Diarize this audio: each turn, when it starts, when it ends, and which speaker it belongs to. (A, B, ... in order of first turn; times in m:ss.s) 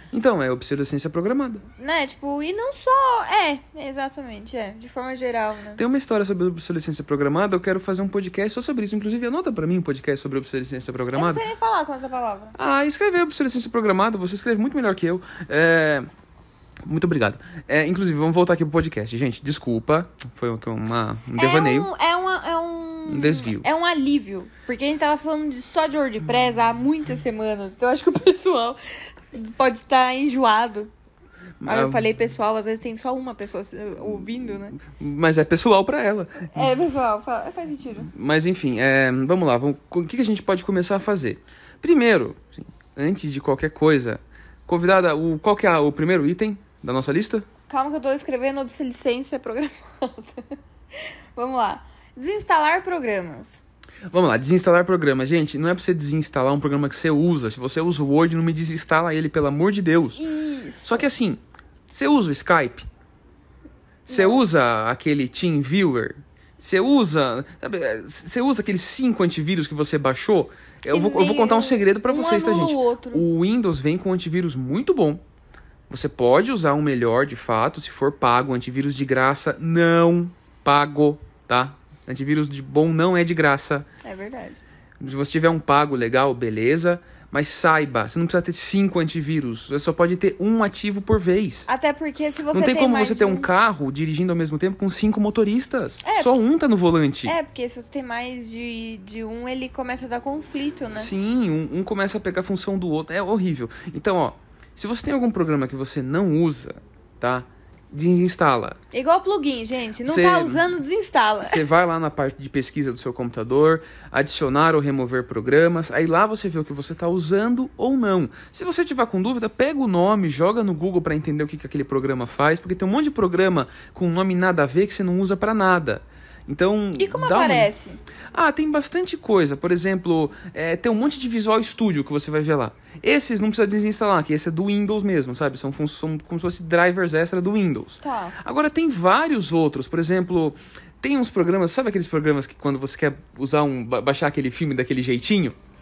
0:00.1-0:01.6 A
0:01.8-0:05.8 B
0:05.8-0:11.4 A
0:11.2-0:12.6 B
0:12.6-0:16.1 A
0:16.8-0:21.9 A
0:21.4-0:30.9 B
0:23.1-0:23.6 A
0:31.6-0:32.1 A
0:31.7-0:34.8 B
0:34.8-0:36.7 A
0:36.5-0:38.1 B
0:38.1-0:47.5 A
0:47.7-0:53.6 B
0:54.1-1:00.2 A
1:00.2-1:01.1 B
1:00.8-1:01.4 A
1:01.9-1:02.9 A
1:04.1-1:15.2 A
1:04.1-1:04.4 B
1:10.9-1:13.3 B
1:15.9-1:23.9 A
1:24.0-1:24.6 B
1:25.0-1:31.7 A
1:31.7-1:33.5 B
1:32.5-1:37.4 A
1:36.0-1:36.4 B
1:37.2-1:41.1 B
1:40.9-1:48.8 A
1:48.9-1:51.6 B
1:50.0-1:50.7 A
1:51.4-2:07.7 A
2:07.0-2:08.0 B
2:08.3-2:25.6 A
2:18.0-2:18.4 B